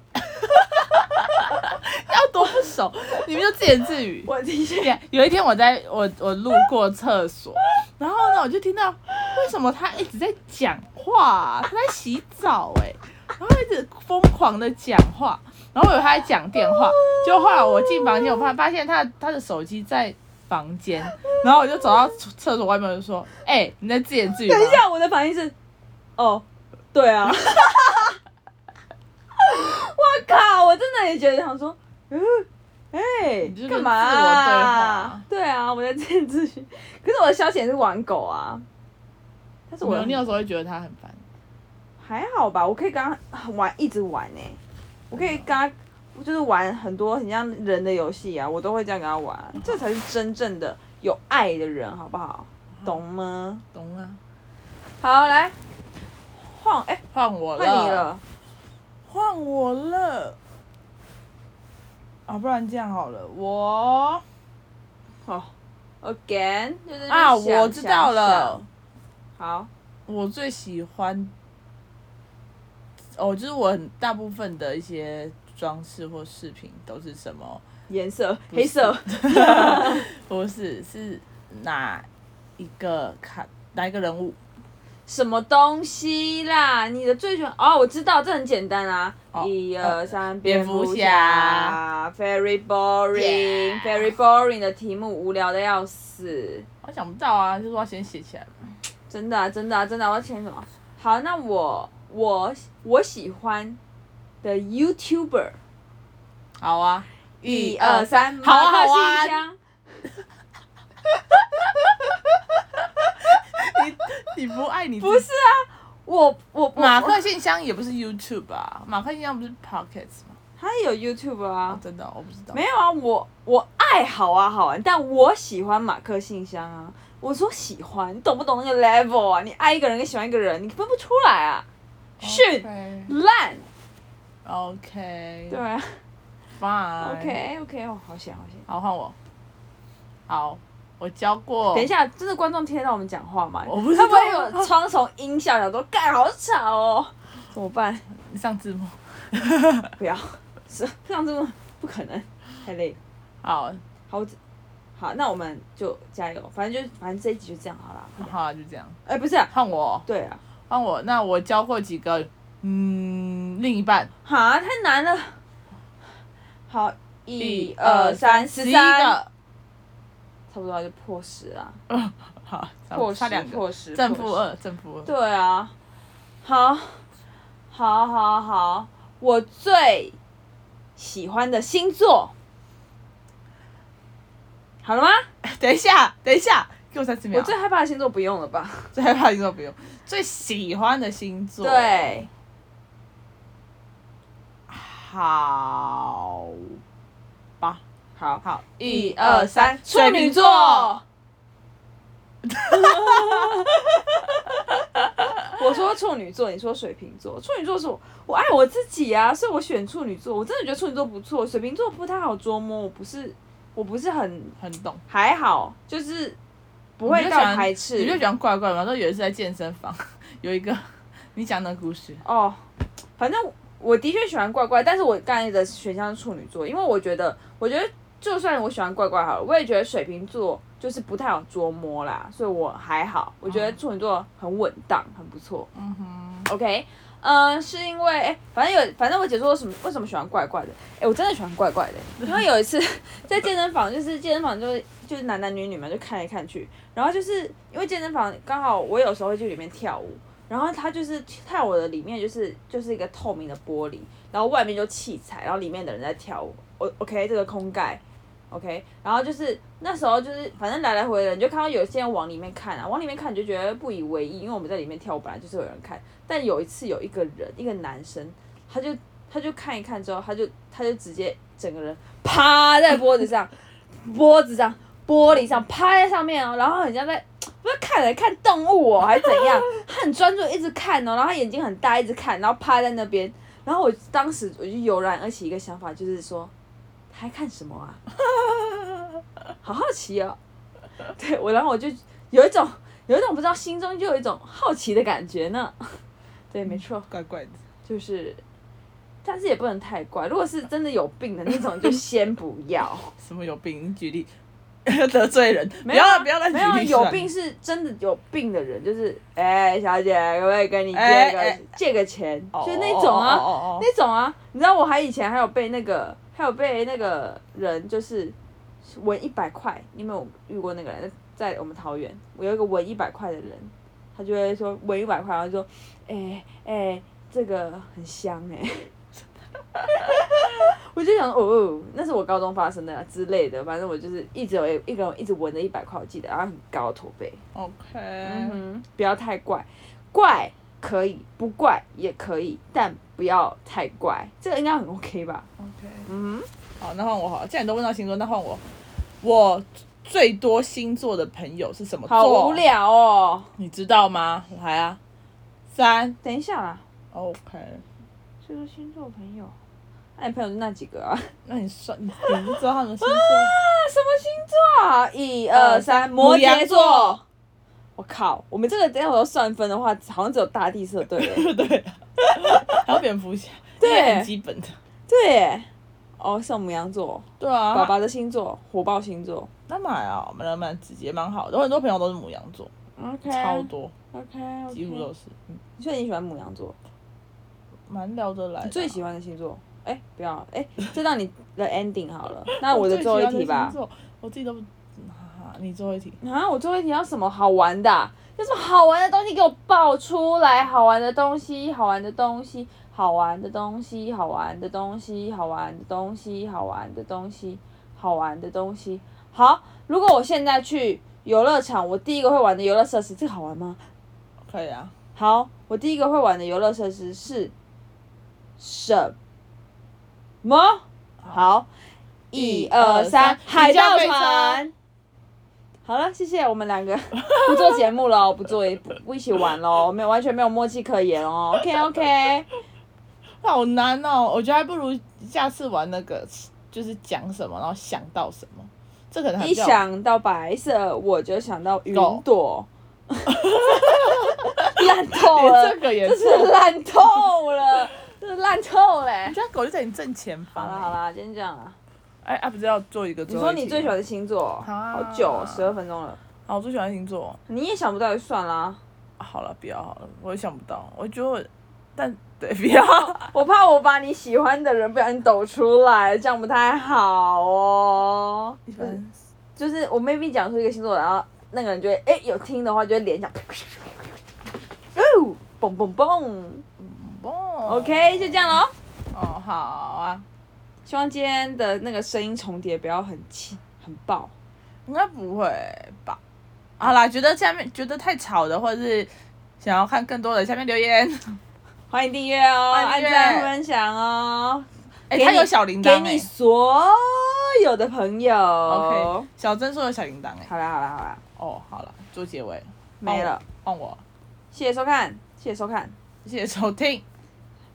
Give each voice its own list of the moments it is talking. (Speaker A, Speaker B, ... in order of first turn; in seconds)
Speaker A: 0.3-24.8, 33.4-35.2, 39.8-41.2, 45.1-45.5, 53.7-54.2, 57.1-58.1, 59.1-60.4, 62.3-64.2, 67.1-68.7, 70.1-71.3, 73.2-77.6, 78.5-82.1, 82.6-84.4, 89.3-91.8, 93.1-94.1, 96.8-98.8, 106.6-109.4, 113.2-115.3, 116.8-120.4, 121.7-122.6, 132.2-133.1, 134.4-135.6, 136.6-137.4, 138.7-139.2, 140.3-141.9, 143.7-144.7, 148.1-149.9, 153.4-153.8, 158.2-159.0, 159.5-160.1, 160.7-164.1, 167.4-169.3, 171.9-175.1, 185.4-187.5, 188.9-192.3, 194.7-196.8, 198.4-200.9, 202.5-203.6, 214.6-215.0, 217.1-222.2, 233.5-233.8, 235.8-236.5, 297.1-297.6, 303.2-304.3, 304.9-307.3, 310.9-311.6, 312.5-313.9, 337.6-338.6, 345.6-346.1, 346.8-348.6, 349.2-352.6, 353.6-355.0, 355.7-356.2, 357.1-357.8, 361.4-363.5, 365.5-367.2, 371.2-374.8, 377.4-377.9, 379.7-382.7, 383.3-383.9, 384.7-385.6, 387.9-389.0, 392.6-396.2, 414.5-414.9, 422.3-424.6, 433.4-439.8, 441.9-442.2, 443.3-446.5, 449.3-450.9, 452.2-454.0, 454.6-455.7, 456.5-457.4, 459.2-463.3, 468.7-469.2, 476.8-478.5, 479.1-480.2, 484.9-486.2, 486.8-491.4, 492.7-493.5, 495.1-496.3, 498.7-500.5, 501.4-504.0, 506.2-507.0
Speaker B: 4.2-5.0, 17.0-17.5, 24.5-25.6, 26.2-28.2, 29.4-38.6, 39.7-40.2, 42.0-44.6, 45.1-53.6, 55.0-55.6, 56.4-57.0, 57.6-58.2, 65.2-65.5, 66.0-68.7, 69.4-69.7, 77.9-80.1, 85.1-96.7, 99.1-103.8, 104.4-105.6, 107.4-109.6, 115.0-117.2, 120.6-121.8, 122.5-131.7, 132.2-133.7, 135.5-136.0, 137.0-138.7, 141.7-148.1, 150.0-153.0, 154.1-154.4, 155.0-158.3, 159.1-159.5, 160.1-160.4, 164.2-165.4, 166.7-169.2, 170.5-171.8, 172.9-174.4, 175.1-175.7, 176.4-177.1, 177.7-180.2, 181.0-182.3, 184.8-185.3, 187.3-188.9, 191.6-192.3, 198.2-201.0, 202.7-203.7, 205.5-216.4, 217.0-218.2, 222.2-222.6, 223.2-235.7, 236.5-286.5, 287.1-288.0, 289.6-290.4, 291.1-297.1, 297.9-298.4, 299.2-303.1, 305.8-329.0, 329.8-337.4, 338.2-345.5, 346.1-346.5, 352.1-353.5, 356.2-356.8, 358.4-359.5, 360.2-361.3, 363.0-367.2, 368.0-371.5, 373.8-374.3, 375.1-375.7, 376.2-379.5, 383.0-385.1, 385.8-386.8, 388.6-393.8, 396.2-413.9, 415.1-417.5, 418.6-419.2, 420.4-421.7, 422.3-424.7, 425.9-432.5, 439.4-449.4, 450.6-451.8, 453.3-456.2, 457.5-458.8, 462.7-469.0, 469.6-474.1, 474.9-476.6, 477.7-478.7, 480.9-484.3, 491.9-499.3, 500.5-501.2, 503.0-503.4, 504.5-505.9